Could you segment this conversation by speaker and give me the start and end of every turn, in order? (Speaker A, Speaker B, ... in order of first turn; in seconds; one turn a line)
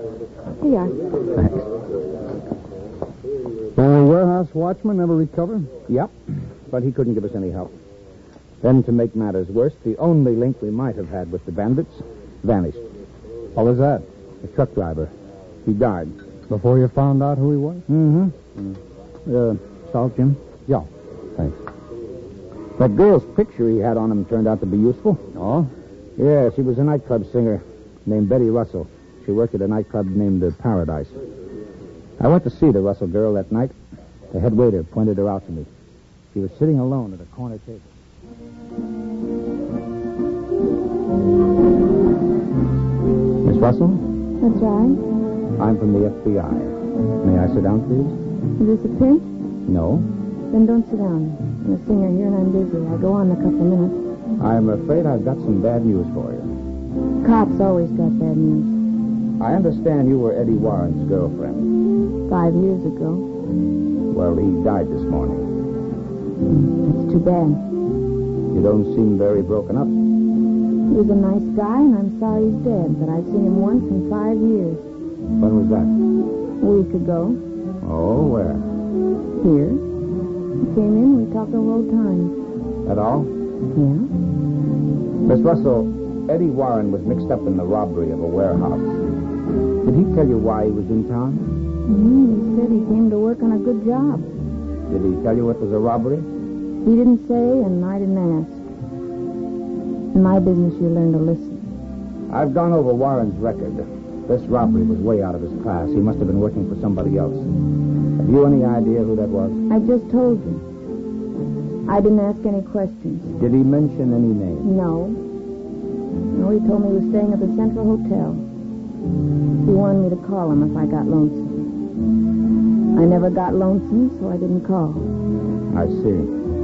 Speaker A: 0.6-1.0
Speaker B: 3.7-5.7
Speaker C: 5.9-6.1
Speaker C: 6.7-7.7
Speaker C: 8.6-12.8
Speaker B: 13.5-14.0
Speaker C: 14.4-15.1
Speaker C: 15.6-16.2
Speaker B: 16.5-17.8
Speaker C: 17.9-18.4
Speaker C: 19.2-20.8
Speaker C: 22.8-25.2
Speaker B: 25.4-25.7
Speaker C: 26.2-31.2
Speaker C: 32.2-33.7
Speaker C: 34.3-35.7
Speaker C: 36.3-37.9
Speaker C: 43.4-44.0
Speaker A: 44.4-45.0
Speaker C: 45.6-48.2
Speaker A: 48.6-49.3
Speaker C: 49.6-50.1
Speaker A: 50.5-54.0
Speaker C: 54.4-56.5
Speaker A: 57.2-58.8
Speaker C: 59.4-61.7
Speaker A: 62.3-63.3
Speaker C: 64.1-65.5
Speaker A: 66.5-67.6
Speaker C: 68.5-69.9
Speaker A: 70.9-74.9
Speaker C: 75.4-76.0
Speaker A: 76.6-77.4
Speaker C: 77.8-78.7
Speaker A: 79.4-79.8
Speaker A: 80.6-82.4
Speaker C: 82.8-83.3
Speaker A: 83.7-84.1
Speaker C: 85.2-89.0
Speaker C: 89.8-91.5
Speaker A: 91.8-94.3
Speaker C: 94.9-96.3
Speaker A: 96.8-98.7
Speaker A: 100.1-101.7
Speaker C: 102.3-107.5
Speaker C: 108.2-109.6
Speaker A: 109.7-110.7
Speaker A: 111.8-113.3
Speaker C: 113.4-114.7
Speaker A: 114.6-115.2
Speaker A: 116.3-118.4
Speaker A: 119.6-121.6
Speaker A: 122.9-125.1
Speaker C: 125.7-126.3